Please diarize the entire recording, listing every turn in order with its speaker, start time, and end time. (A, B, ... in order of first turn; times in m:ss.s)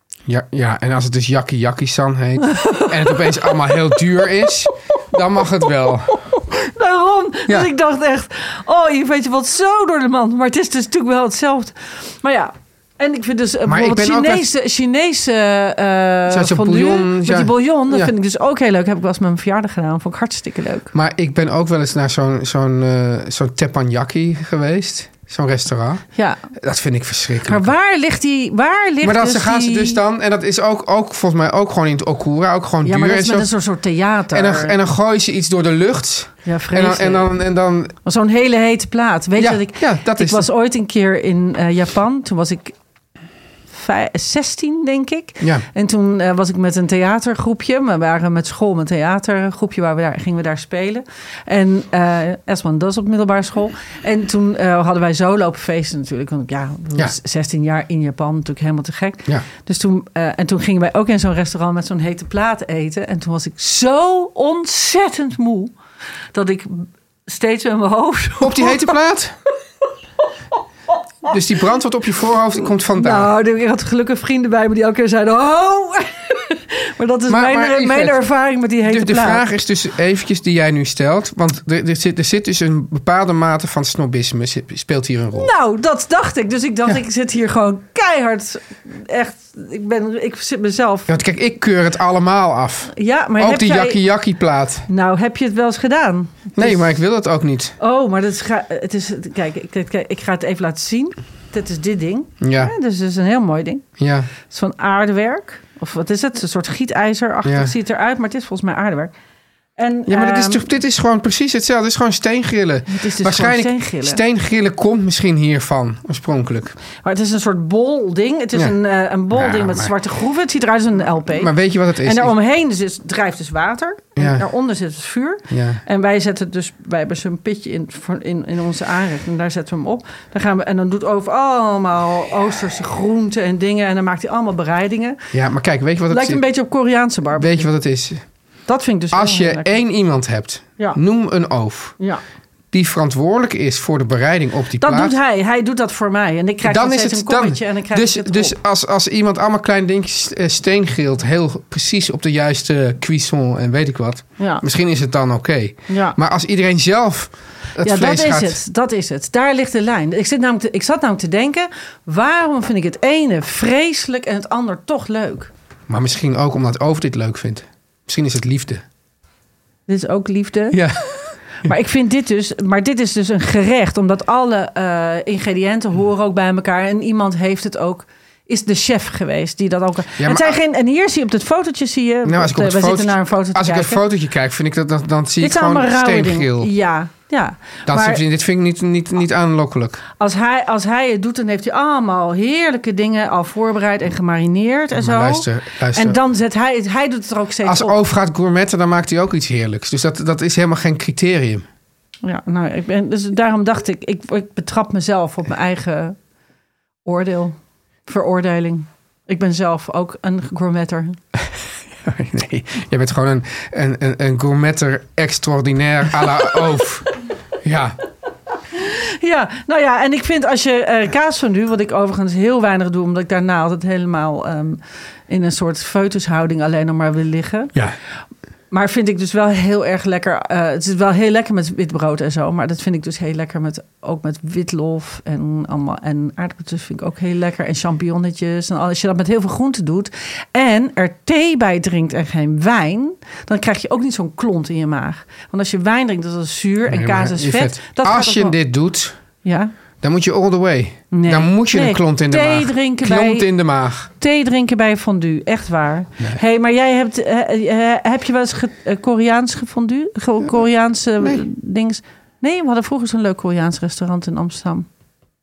0:00.3-0:06.2 A
0:02.5-0:03.7 B
0:06.2-0:20.9 B
0:13.7-0:14.5 A
0:16.3-0:18.1 A
0:20.9-0:26.0 A
0:26.2-0:26.4 B
0:26.5-0:27.7 A
0:27.5-0:30.0 B
0:29.0-0:33.5 A
0:32.8-0:34.8 B
0:34.3-0:38.0 A
0:36.4-0:37.3 B
0:38.0-0:42.8 B
0:39.4-0:40.5 A
0:43.7-1:05.7 B
1:06.3-1:09.0 B
1:08.4-1:09.4 A
1:11.2-1:13.3 A
1:13.0-1:19.4 B
1:17.3-1:18.2 A
1:18.8-1:25.5 A
1:25.4-1:31.1 B
1:31.1-1:34.9 A
1:32.9-1:34.0 B
1:34.9-1:36.8 B
1:36.6-1:37.8 A
1:37.8-1:43.9 B
1:42.4-1:42.7 A
1:44.0-1:44.3 A
1:44.4-1:49.1 B
1:47.4-1:47.7 A
1:49.8-1:50.6 B
1:50.1-1:56.8 A
1:52.9-1:54.2 B
1:57.0-2:15.2 B
1:59.3-1:59.9 A
2:01.3-2:02.3 A
2:04.2-2:04.5 A
2:05.5-2:05.8 A
2:15.3-2:16.4 A
2:16.1-2:17.7 B
2:17.4-2:18.2 A
2:18.7-2:19.7 B
2:19.1-2:22.0 A
2:22.7-2:25.2 A
2:24.8-2:28.6 B
2:26.6-2:38.6 A
2:34.4-2:34.6 B
2:35.9-2:36.2 B
2:37.8-2:45.5 B
2:45.9-2:48.8 A
2:49.9-2:50.8 B
2:50.7-2:51.7 A
2:51.6-3:04.0 B
3:00.2-3:00.6 A
3:02.2-3:06.7 A
3:05.4-3:08.2 B
3:07.9-3:10.0 A
3:10.2-3:18.0 B
3:15.0-3:16.2 A
3:17.6-3:21.7 A
3:22.2-3:26.2 B
3:27.0-3:31.2 B
3:32.0-3:37.1 A
3:37.6-3:38.0 A
3:38.8-3:47.7 B
3:48.7-4:08.6 B
4:06.9-4:09.2 A
4:09.4-4:09.7 B
4:10.0-4:14.1 A
4:11.1-4:13.5 B
4:14.2-4:24.9 B